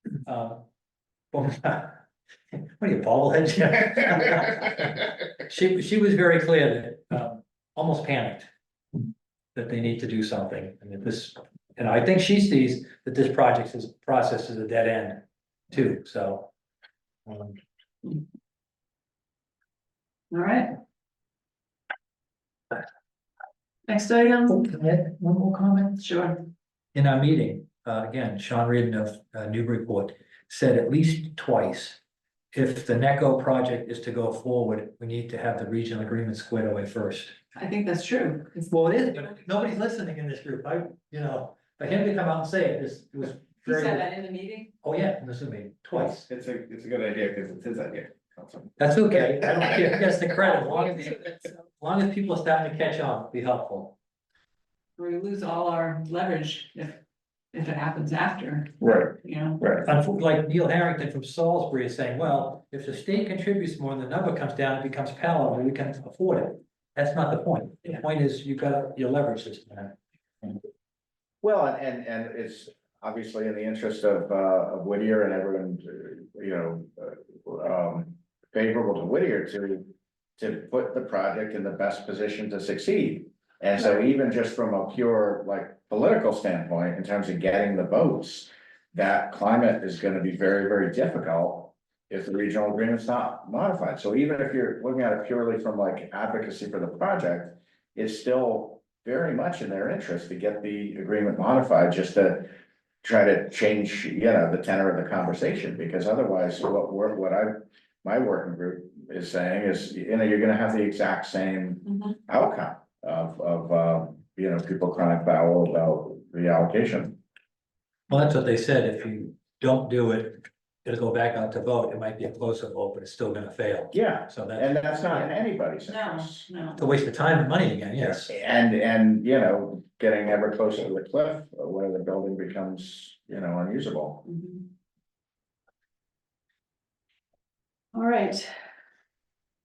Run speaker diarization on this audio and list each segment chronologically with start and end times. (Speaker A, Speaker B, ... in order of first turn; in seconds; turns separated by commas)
Speaker A: 0.2-0.7, Speaker A: 1.3-2.0, Speaker A: 2.5-8.5, Speaker A: 9.5-16.5, Speaker A: 17.2-17.6, Speaker B: 20.3-20.8, Speaker B: 23.9-24.7, Speaker A: 24.5-26.0, Speaker B: 26.0-26.5, Speaker A: 26.9-32.0, Speaker A: 32.5-37.4, Speaker B: 37.5-39.0, Speaker A: 38.7-44.1, Speaker B: 43.6-44.7, Speaker A: 44.8-46.2, Speaker C: 45.9-48.8, Speaker A: 48.8-51.2, Speaker B: 50.5-51.6, Speaker A: 51.8-54.0, Speaker B: 55.0-57.0, Speaker B: 57.5-59.6, Speaker C: 58.8-59.8, Speaker A: 59.8-70.0, Speaker D: 71.4-102.5, Speaker D: 103.0-117.2, Speaker B: 111.8-112.2, Speaker A: 118.1-125.3, Speaker D: 123.9-126.5, Speaker B: 125.8-126.8, Speaker A: 126.8-128.3, Speaker D: 128.2-134.2, Speaker B: 134.2-134.7, Speaker B: 137.9-138.5